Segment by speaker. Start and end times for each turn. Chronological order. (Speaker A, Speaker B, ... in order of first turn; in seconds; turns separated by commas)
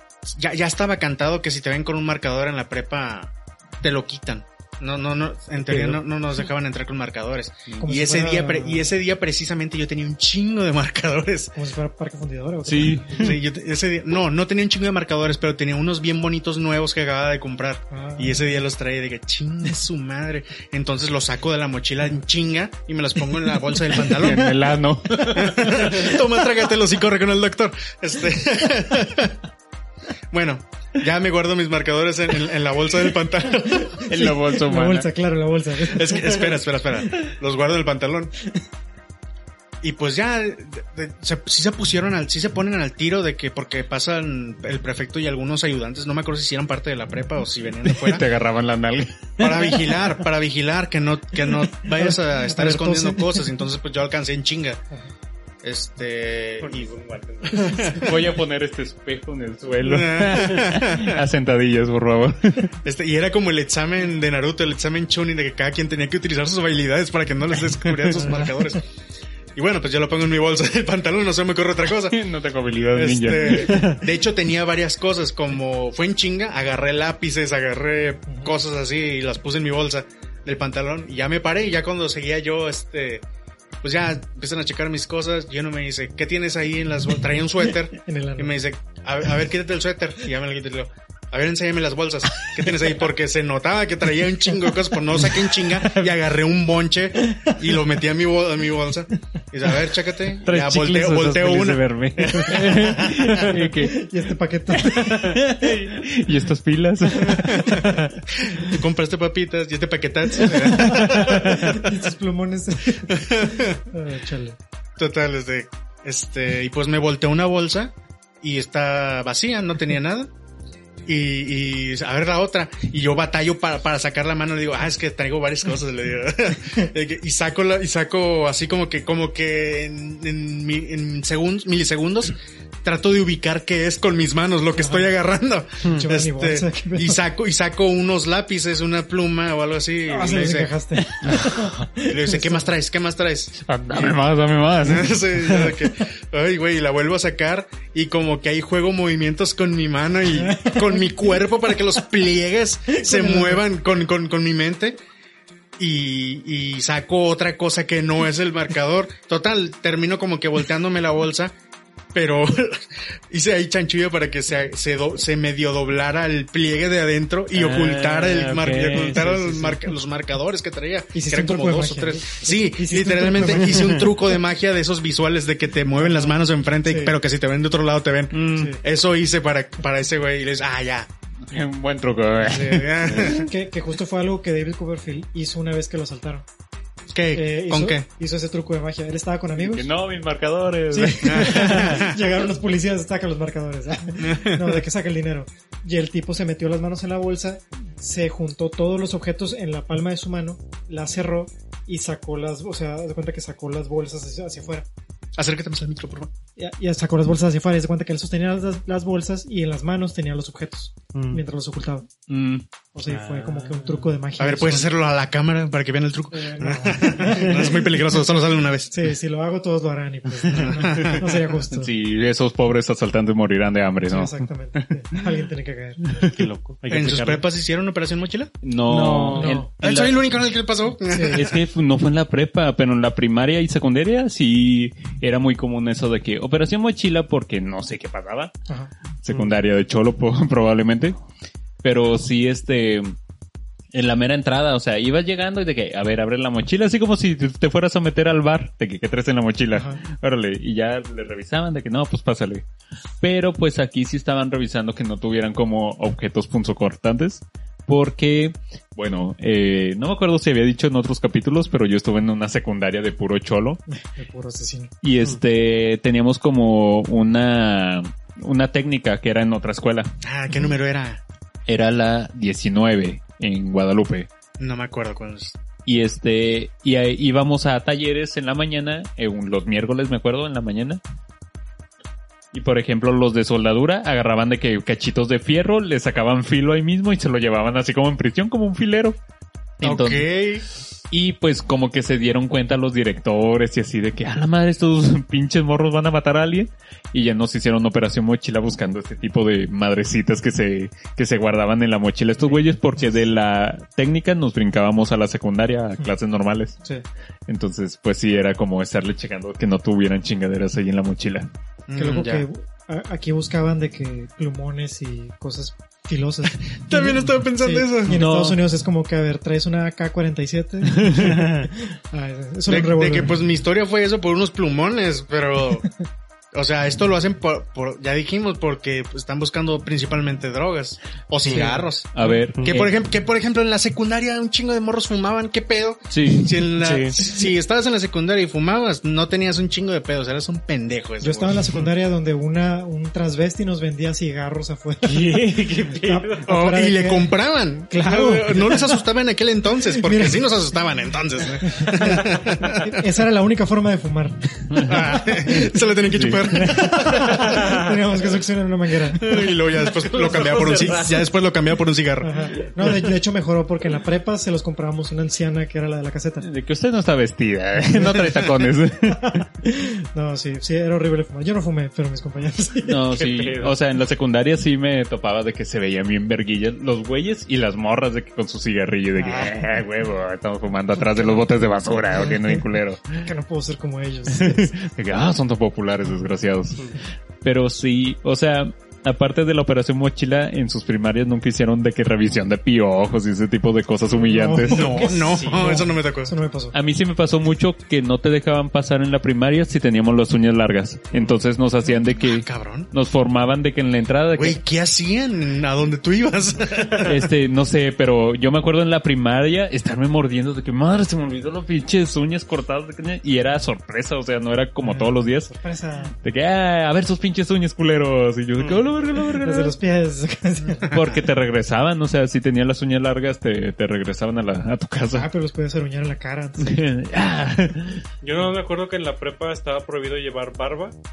Speaker A: 0.2-11.5, Speaker B: 5.6-6.0, Speaker C: 7.8-8.9, Speaker C: 11.6-13.1, Speaker B: 12.6-13.4, Speaker A: 13.1-24.6, Speaker C: 17.9-18.5, Speaker B: 23.8-26.2, Speaker A: 25.3-29.4, Speaker A: 30.3-34.1, Speaker C: 33.8-36.5, Speaker B: 34.0-35.1, Speaker A: 35.8-38.3, Speaker A: 39.8-48.2, Speaker B: 47.8-49.6, Speaker A: 49.4-54.8, Speaker C: 51.9-53.5, Speaker A: 55.6-56.9, Speaker D: 56.6-57.8, Speaker A: 57.5-58.2, Speaker B: 57.9-62.7, Speaker A: 59.8-61.2, Speaker A: 62.8-68.8, Speaker C: 68.2-68.5, Speaker A: 69.5-72.2, Speaker B: 72.1-74.0, Speaker A: 72.9-83.2, Speaker D: 73.7-74.0, Speaker C: 78.3-78.5, Speaker A: 83.8-103.4, Speaker C: 87.9-88.5, Speaker C: 97.3-97.5, Speaker D: 100.4-103.7, Speaker B: 102.5-104.0, Speaker C: 103.8-105.4, Speaker B: 104.7-108.1, Speaker A: 107.3-111.9, Speaker C: 107.4-108.0, Speaker C: 110.7-114.6, Speaker A: 113.1-113.8, Speaker A: 115.0-120.3, Speaker A: 121.0-141.4, Speaker C: 134.8-135.1, Speaker C: 135.9-137.2, Speaker C: 140.1-142.7, Speaker B: 141.2-141.7, Speaker A: 142.1-144.2, Speaker B: 143.6-145.2, Speaker A: 144.8-155.0, Speaker C: 150.4-151.4, Speaker C: 152.9-153.6, Speaker A: 155.8-161.5, Speaker A: 162.1-181.1, Speaker B: 167.5-169.6, Speaker D: 168.6-169.7, Speaker C: 171.1-174.1, Speaker C: 175.9-177.2, Speaker C: 178.5-178.8, Speaker B: 181.4-183.4, Speaker A: 182.4-183.5, Speaker C: 183.2-186.4, Speaker A: 187.1-188.1, Speaker C: 187.3-189.9, Speaker B: 189.6-192.0, Speaker C: 190.9-204.9, Speaker A: 191.2-192.2, Speaker A: 194.2-194.8, Speaker A: 205.4-206.3, Speaker C: 206.6-212.1, Speaker D: 211.1-211.4, Speaker B: 212.3-212.6, Speaker C: 212.9-214.9, Speaker D: 213.1-214.1, Speaker A: 214.4-219.0, Speaker C: 216.3-218.2, Speaker C: 218.9-221.9, Speaker A: 220.4-221.4, Speaker B: 221.7-225.3, Speaker C: 224.1-226.1, Speaker B: 226.1-226.5, Speaker D: 226.4-227.4, Speaker A: 226.9-228.5, Speaker B: 228.6-230.2, Speaker D: 228.9-229.6, Speaker C: 229.3-229.7, Speaker A: 229.8-231.6, Speaker C: 231.1-231.5, Speaker B: 231.3-238.5, Speaker B: 239.2-241.2, Speaker D: 239.3-239.6, Speaker B: 241.8-243.1, Speaker B: 243.9-252.6, Speaker C: 249.7-250.0, Speaker B: 253.2-263.8, Speaker C: 263.9-264.9, Speaker B: 265.0-270.1, Speaker A: 270.2-271.2, Speaker B: 271.7-274.3, Speaker A: 274.6-275.6, Speaker B: 275.9-281.0, Speaker B: 282.5-289.2, Speaker B: 289.8-290.2, Speaker A: 289.8-290.6, Speaker B: 291.1-306.8, Speaker C: 302.5-303.1, Speaker B: 307.5-311.5, Speaker A: 311.9-312.4, Speaker C: 311.9-323.3, Speaker A: 316.7-318.2, Speaker B: 318.1-318.6, Speaker B: 321.0-321.3, Speaker D: 321.1-321.7, Speaker A: 322.7-325.9, Speaker A: 326.5-341.9, Speaker D: 331.4-331.7, Speaker C: 331.5-332.4, Speaker B: 332.1-332.9, Speaker D: 332.6-332.8, Speaker B: 336.1-336.6, Speaker D: 336.8-337.2, Speaker C: 341.2-347.3, Speaker D: 345.0-346.4, Speaker A: 346.4-352.9, Speaker C: 347.9-349.0, Speaker C: 349.9-350.4, Speaker C: 351.6-355.2, Speaker B: 354.7-356.9, Speaker A: 354.9-357.6, Speaker C: 356.5-359.4, Speaker D: 357.4-357.9, Speaker A: 359.2-362.4, Speaker D: 359.8-361.3, Speaker C: 362.2-366.5, Speaker B: 366.4-369.4, Speaker C: 367.9-372.9, Speaker B: 372.9-383.3, Speaker D: 373.0-373.7, Speaker C: 379.2-379.6, Speaker C: 381.0-381.4, Speaker C: 382.1-382.6, Speaker C: 383.2-384.8, Speaker B: 384.3-386.9, Speaker C: 386.0-386.3, Speaker B: 387.4-395.0, Speaker C: 394.2-396.8, Speaker A: 394.6-396.3, Speaker D: 395.0-395.8, Speaker B: 396.7-404.6, Speaker D: 401.1-401.4, Speaker A: 402.2-402.9, Speaker A: 404.3-407.3, Speaker B: 407.0-415.5, Speaker C: 414.8-416.2, Speaker B: 416.2-419.7, Speaker D: 418.6-418.8, Speaker C: 419.4-420.9, Speaker A: 420.9-421.2, Speaker B: 420.9-425.3, Speaker C: 425.1-426.8, Speaker B: 426.6-428.0, Speaker D: 428.2-431.0